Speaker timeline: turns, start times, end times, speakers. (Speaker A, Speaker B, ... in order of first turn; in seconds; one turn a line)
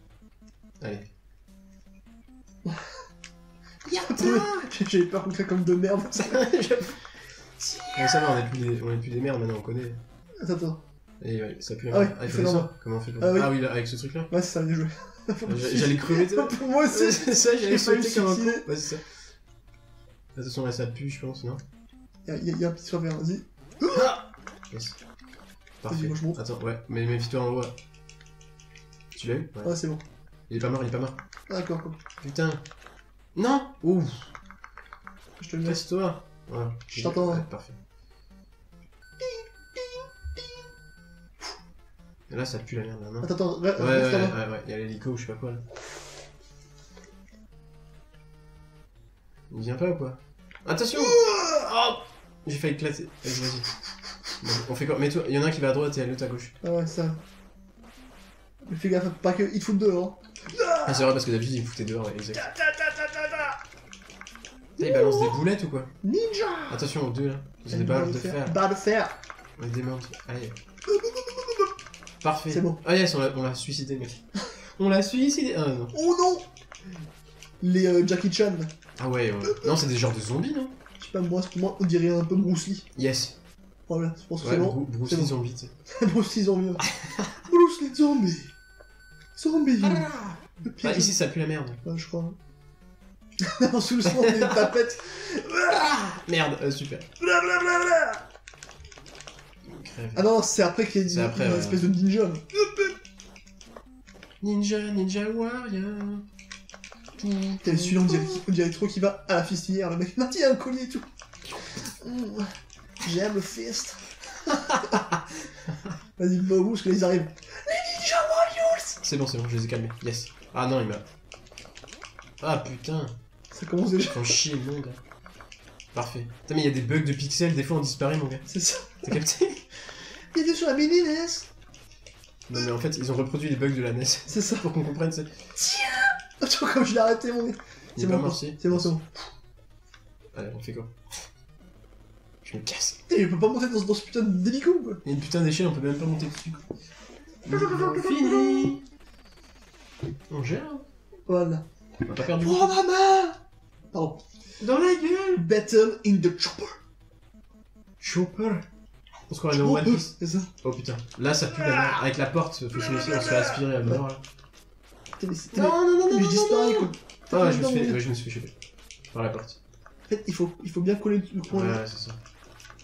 Speaker A: 0.8-1.1
Speaker A: 3.9-4.6
Speaker B: 3.9-6.5
Speaker A: 6.2-7.0
Speaker B: 7.6-8.4
Speaker A: 7.9-10.0
Speaker B: 10.4-10.8
Speaker A: 11.2-14.3
Speaker B: 11.9-13.6
Speaker B: 14.3-18.6
Speaker A: 15.4-19.0
Speaker A: 20.4-21.6
Speaker B: 22.2-24.1
Speaker A: 23.9-25.0
Speaker A: 25.8-27.7
Speaker B: 25.9-26.4
Speaker A: 29.1-29.7
Speaker B: 29.6-30.0
Speaker A: 30.5-31.2
Speaker B: 31.5-32.0
Speaker A: 32.2-32.6
Speaker A: 33.3-34.3
Speaker B: 35.4-35.9
Speaker A: 35.6-37.8
Speaker B: 36.9-37.5
Speaker B: 39.2-40.5
Speaker A: 42.3-45.6
Speaker B: 43.2-44.4
Speaker A: 49.5-53.7
Speaker B: 51.0-51.7
Speaker A: 54.4-56.5
Speaker B: 56.6-57.2
Speaker B: 58.7-61.1
Speaker A: 60.8-62.5
Speaker B: 62.3-63.6
Speaker B: 64.8-65.4
Speaker A: 64.8-65.9
Speaker B: 66.0-66.9
Speaker A: 66.7-68.5
Speaker B: 67.7-69.1
Speaker A: 69.6-70.6
Speaker B: 70.9-71.7
Speaker A: 72.2-74.2
Speaker B: 72.5-72.8
Speaker A: 74.8-75.9
Speaker B: 75.9-76.5
Speaker B: 77.6-78.7
Speaker A: 79.0-80.7
Speaker B: 79.4-79.7
Speaker B: 81.0-82.8
Speaker A: 83.0-83.3
Speaker B: 83.9-85.3
Speaker A: 84.4-85.7
Speaker B: 86.0-86.8
Speaker A: 87.0-87.3
Speaker B: 87.4-88.5
Speaker B: 89.3-91.2
Speaker A: 89.8-91.8
Speaker B: 91.8-92.3
Speaker B: 93.5-96.0
Speaker A: 94.0-94.7
Speaker A: 95.9-97.1
Speaker B: 97.2-98.2
Speaker A: 99.7-100.3
Speaker B: 100.1-102.9
Speaker A: 101.1-101.8
Speaker A: 104.4-106.2
Speaker A: 107.2-108.4
Speaker B: 107.6-111.0
Speaker B: 112.0-112.5
Speaker B: 113.0-114.9
Speaker A: 114.5-115.2
Speaker B: 116.2-119.0
Speaker A: 119.0-121.0
Speaker A: 122.4-123.1
Speaker B: 123.5-124.4
Speaker A: 124.1-125.0
Speaker A: 125.9-128.5
Speaker B: 128.5-129.2
Speaker A: 129.0-129.7
Speaker B: 130.3-131.5
Speaker A: 132.5-135.3
Speaker B: 134.3-134.7
Speaker B: 135.6-139.2
Speaker A: 137.9-138.9
Speaker A: 140.3-140.9
Speaker A: 142.4-143.0
Speaker B: 143.1-145.0
Speaker A: 145.0-146.6
Speaker B: 147.4-148.7
Speaker A: 147.4-148.8
Speaker A: 150.3-150.8
Speaker B: 151.3-151.6
Speaker A: 152.1-152.8
Speaker B: 152.2-153.4
Speaker B: 153.9-154.2
Speaker A: 154.6-155.4
Speaker B: 155.3-156.8
Speaker A: 158.0-158.6
Speaker A: 159.3-164.2
Speaker B: 159.5-160.5
Speaker B: 161.6-162.0
Speaker B: 162.8-164.0
Speaker B: 165.2-168.0
Speaker A: 165.5-168.5
Speaker A: 169.1-169.6
Speaker B: 170.1-171.8
Speaker A: 171.5-172.2